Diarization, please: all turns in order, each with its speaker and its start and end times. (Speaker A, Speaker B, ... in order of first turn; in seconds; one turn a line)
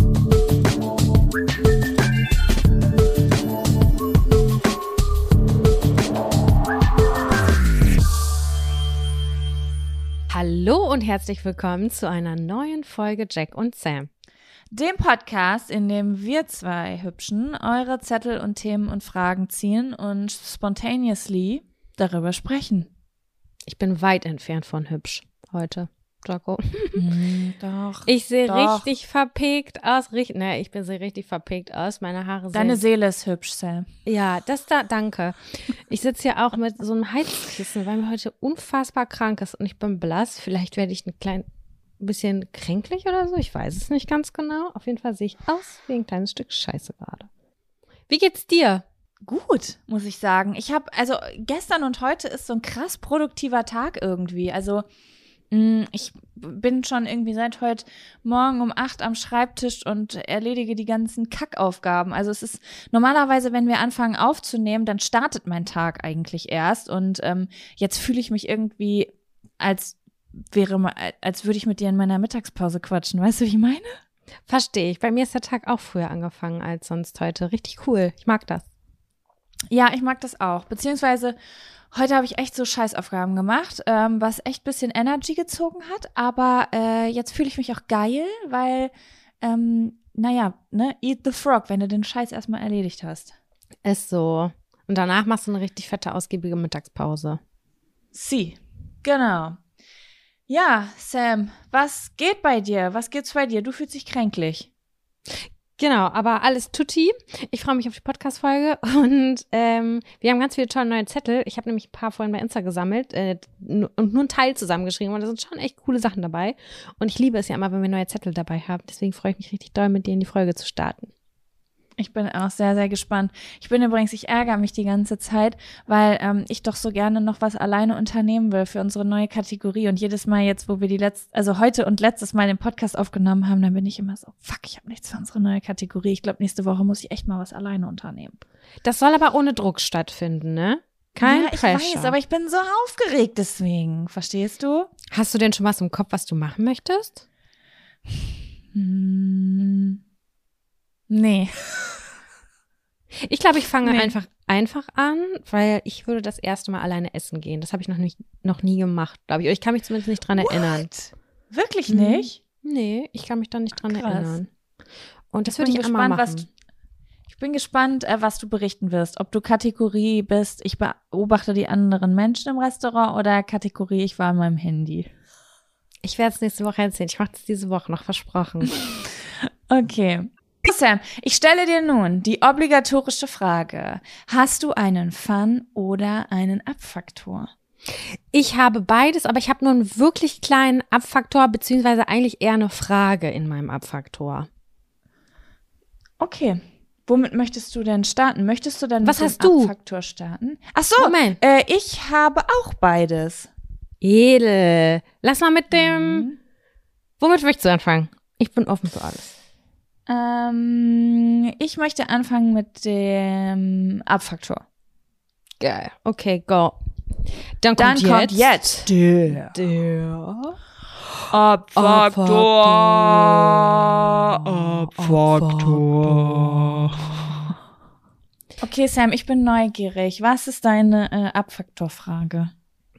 Speaker A: 10.3-14.1
Speaker B: 14.7-22.9
Speaker A: 23.6-27.0
Speaker B: 26.9-28.9
Speaker A: 28.1-32.8
Speaker B: 32.5-33.9
Speaker A: 34.0-41.4
Speaker A: 42.0-47.3
Speaker A: 48.1-48.8
Speaker B: 49.2-54.8
Speaker B: 55.5-70.0
Speaker B: 70.5-74.0
Speaker A: 74.5-78.6
Speaker B: 79.7-81.3
Speaker B: 81.9-93.3
Speaker A: 93.8-97.4
Speaker B: 98.1-99.6
Speaker B: 100.5-104.7
Speaker A: 105.3-121.1
Speaker B: 122.0-138.4
Speaker A: 138.8-142.1
Speaker B: 141.2-144.9
Speaker A: 145.1-147.2
Speaker B: 148.7-150.0
Speaker B: 151.1-152.0
Speaker A: 153.1-160.9
Speaker B: 153.8-154.1
Speaker B: 160.4-162.4
Speaker A: 161.9-164.5
Speaker B: 163.8-164.4
Speaker A: 165.3-166.5
Speaker B: 165.4-166.4
Speaker B: 167.3-175.1
Speaker A: 176.0-178.7
Speaker B: 179.7-187.5
Speaker A: 187.9-194.5
Speaker B: 196.2-203.5
Speaker A: 199.0-199.7
Speaker A: 201.0-201.4
Speaker A: 204.0-206.3
Speaker B: 205.7-206.4
Speaker A: 207.2-209.3
Speaker B: 210.1-214.6
Speaker A: 215.6-216.8
Speaker A: 217.6-220.5
Speaker B: 217.8-219.6
Speaker B: 221.3-227.5
Speaker A: 221.7-223.7
Speaker A: 224.4-227.5
Speaker B: 228.6-232.5